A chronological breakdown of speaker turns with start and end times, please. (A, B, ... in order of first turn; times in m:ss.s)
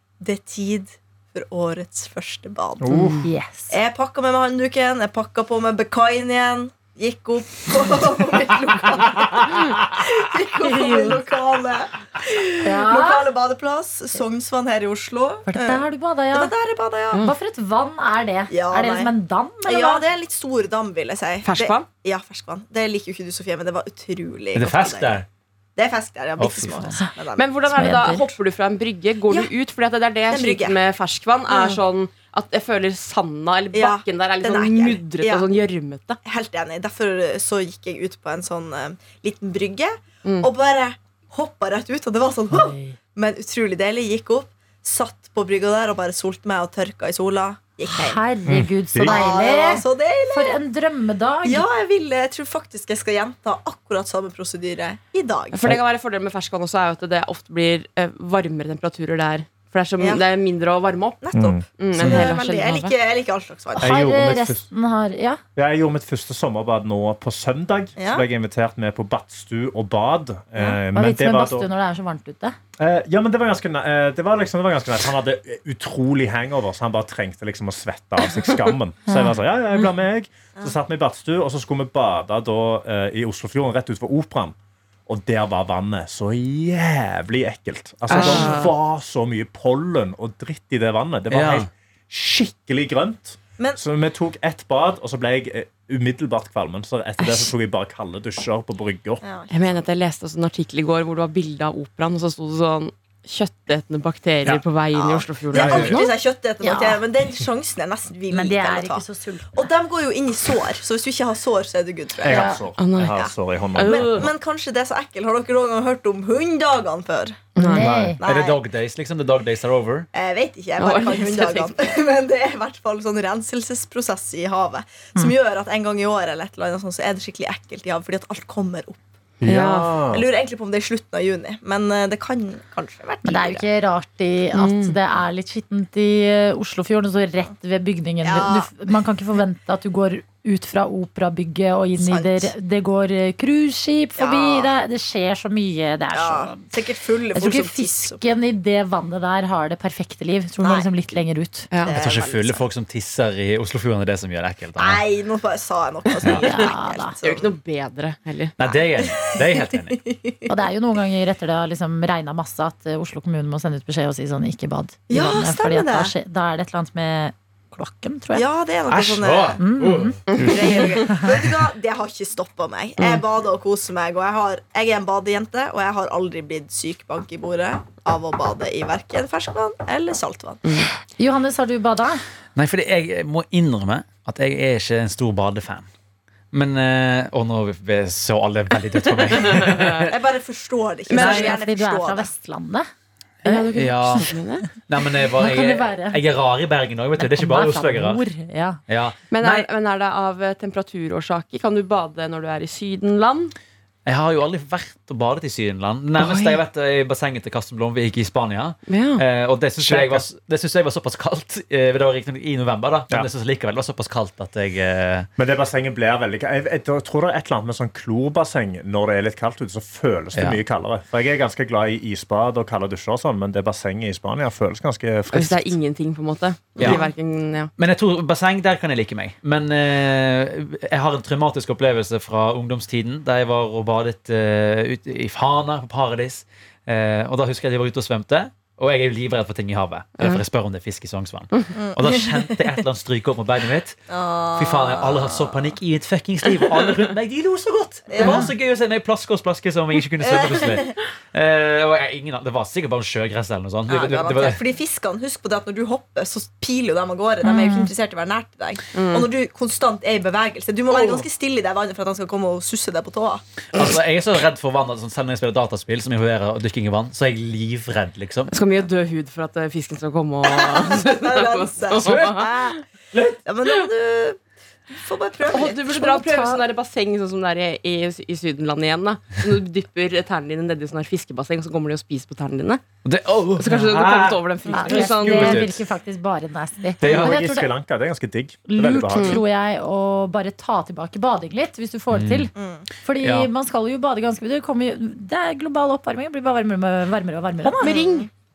0:00.2-0:03.1 A
0:02.8-0:03.3 B
0:03.2-0:03.7 C
0:03.7-0:17.3 A
0:10.6-0:11.2 C
0:12.6-0:13.3 C
0:15.4-0:16.5 C
0:17.2-0:20.0 C
0:18.5-0:19.1 A
0:19.6-0:25.2 A
0:21.4-0:21.9 D
0:24.5-0:25.2 E
0:25.8-0:27.8 A
0:26.4-0:27.0 E
0:27.3-0:36.2 D
0:27.7-0:28.3 C
0:30.3-0:30.8 A
0:31.5-0:31.8 A
0:33.7-0:35.5 A
0:36.2-0:48.2 A
0:40.2-0:40.5 D
0:42.5-0:43.0 C
0:48.0-0:51.6 C
0:48.5-0:49.2 B
0:49.0-0:50.6 A
0:51.4-0:55.6 A
0:55.5-1:01.2 D
1:00.0-1:00.2 A
1:01.2-1:03.9 A
1:01.3-1:02.3 B
1:01.8-1:02.9 D
1:03.8-1:05.4 C
1:03.8-1:04.7 B
1:05.6-1:11.7 B
1:08.0-1:08.2 A
1:10.9-1:12.6 C
1:12.8-1:24.6 B
1:25.1-1:39.2 B
1:28.1-1:28.6 E
1:28.2-1:28.7 D
1:31.3-1:31.7 E
1:39.2-1:39.8 A
1:39.5-1:46.1 D
1:44.9-1:58.6 A
1:45.5-1:46.0 B
1:46.6-1:47.0 C
1:48.3-1:49.7 C
1:52.2-1:54.3 B
1:52.3-1:52.6 C
1:52.8-1:54.3 D
1:57.6-1:57.9 D
1:57.6-1:58.2 C
1:57.8-2:00.1 E
2:00.1-2:09.0 A
2:00.8-2:01.8 D
2:09.4-2:10.3 B
2:09.4-2:09.9 D
2:10.1-2:13.6 A
2:13.2-2:26.6 C
2:14.5-2:15.0 D
2:18.2-2:18.8 A
2:22.0-2:22.5 A
2:24.2-2:24.7 A
2:26.1-2:28.2 A
2:27.3-2:31.7 C
2:30.6-2:30.9 A
2:31.7-2:32.0 D
2:31.8-2:32.6 A
2:31.9-2:35.0 E
2:34.8-2:37.5 A
2:36.3-2:37.1 C
2:37.2-2:38.6 D
2:38.6-2:40.0 E
2:38.6-2:40.5 A
2:40.5-2:48.4 C
2:45.1-2:46.1 A
2:48.3-2:49.6 A
2:48.9-2:51.4 E
2:49.6-2:50.2 C
2:50.3-3:00.6 A
2:50.7-2:51.2 C
3:00.6-3:00.9 D
3:01.2-3:02.2 C
3:02.6-3:05.8 E
3:06.5-3:10.1 E
3:09.6-3:10.0 D
3:10.1-3:12.3 A
3:11.1-3:11.6 E
3:11.1-3:12.9 C
3:13.4-3:14.2 C
3:13.4-3:14.6 D
3:13.7-3:14.3 E
3:14.9-3:18.2 E
3:15.3-3:16.2 C
3:17.2-3:18.8 C
3:18.9-3:19.6 E
3:19.3-3:23.5 D
3:24.0-3:35.3 E
3:26.2-3:26.6 D
3:28.9-3:29.2 D
3:29.8-3:30.2 B
3:35.4-3:45.8 B
3:40.3-3:40.6 E
3:45.3-3:47.7 D
3:46.8-3:47.0 E
3:47.8-4:14.7 E
4:01.7-4:02.6 A
4:04.1-4:05.4 A
4:08.1-4:08.5 A
4:10.2-4:10.9 A
4:13.9-4:23.4 A
4:17.4-4:17.9 C
4:18.9-4:19.3 D
4:20.9-4:21.2 D
4:23.7-4:28.5 E
4:28.5-4:32.8 D
4:30.5-4:34.4 A
4:32.0-4:32.3 E
4:34.9-4:35.9 A
4:35.5-4:42.8 D
4:35.9-4:36.6 C
4:43.0-4:45.8 E
4:43.6-4:45.7 D
4:44.7-4:47.7 C
4:47.0-4:49.4 B
4:47.0-4:47.4 E
4:48.7-4:52.5 C
4:49.1-4:49.4 D
4:52.1-4:52.5 E
4:52.5-4:52.9 A
4:53.0-4:57.9 C
4:53.2-4:53.5 E
4:57.6-4:58.3 D
4:57.8-4:58.3 A